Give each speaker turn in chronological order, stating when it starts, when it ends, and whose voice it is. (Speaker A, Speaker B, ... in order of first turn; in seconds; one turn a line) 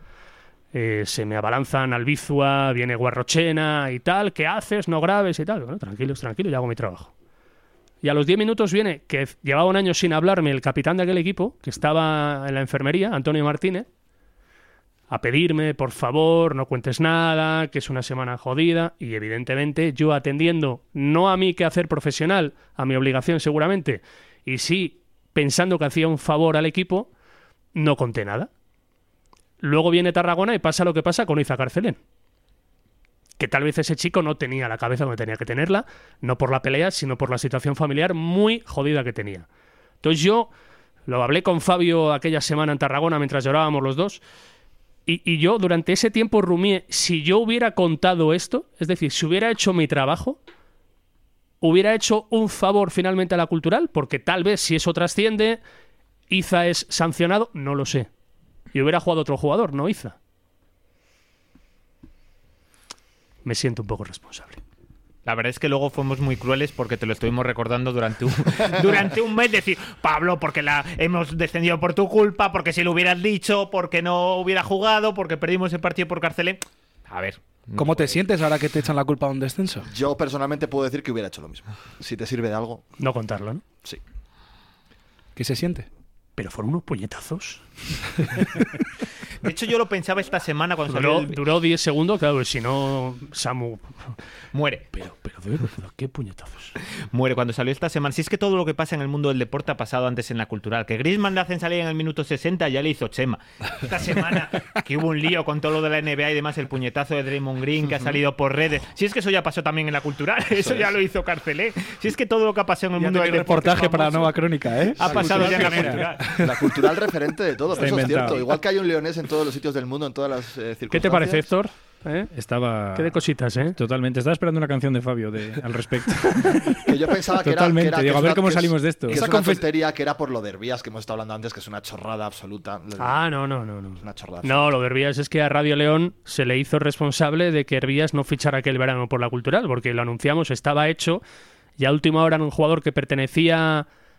Speaker A: 0.7-7.1
Speaker A: 8.0-13.9
Speaker A: 15.1-27.1
Speaker A: 27.8-28.5
Speaker A: 29.6-32.0
Speaker A: 33.4-39.5
Speaker A: 40.0-40.5
Speaker A: 41.1-44.2
Speaker A: 45.1-50.4
Speaker A: 51.6-55.6
Speaker A: 56.3-58.1
Speaker A: 58.7-60.2
Speaker A: 63.5-64.6
Speaker B: 65.2-78.2
Speaker C: 77.8-79.9
Speaker D: 79.9-82.9
Speaker A: 83.0-83.6
Speaker C: 85.4-85.9
Speaker A: 86.4-87.6
Speaker B: 89.4-91.4
Speaker A: 90.9-94.2
Speaker B: 94.5-94.9
Speaker A: 95.0-96.8
Speaker B: 97.1-114.3
Speaker D: 110.6-110.9
Speaker C: 113.0-116.9
Speaker B: 115.0-116.2
Speaker E: 115.0-116.1
Speaker D: 116.3-121.5
Speaker E: 117.7-118.5
Speaker A: 120.9-122.3
Speaker E: 122.3-129.2
Speaker A: 122.9-123.8
Speaker D: 126.8-133.2
Speaker C: 129.1-129.6
Speaker A: 133.0-141.2
Speaker D: 134.0-134.7
Speaker A: 141.8-143.9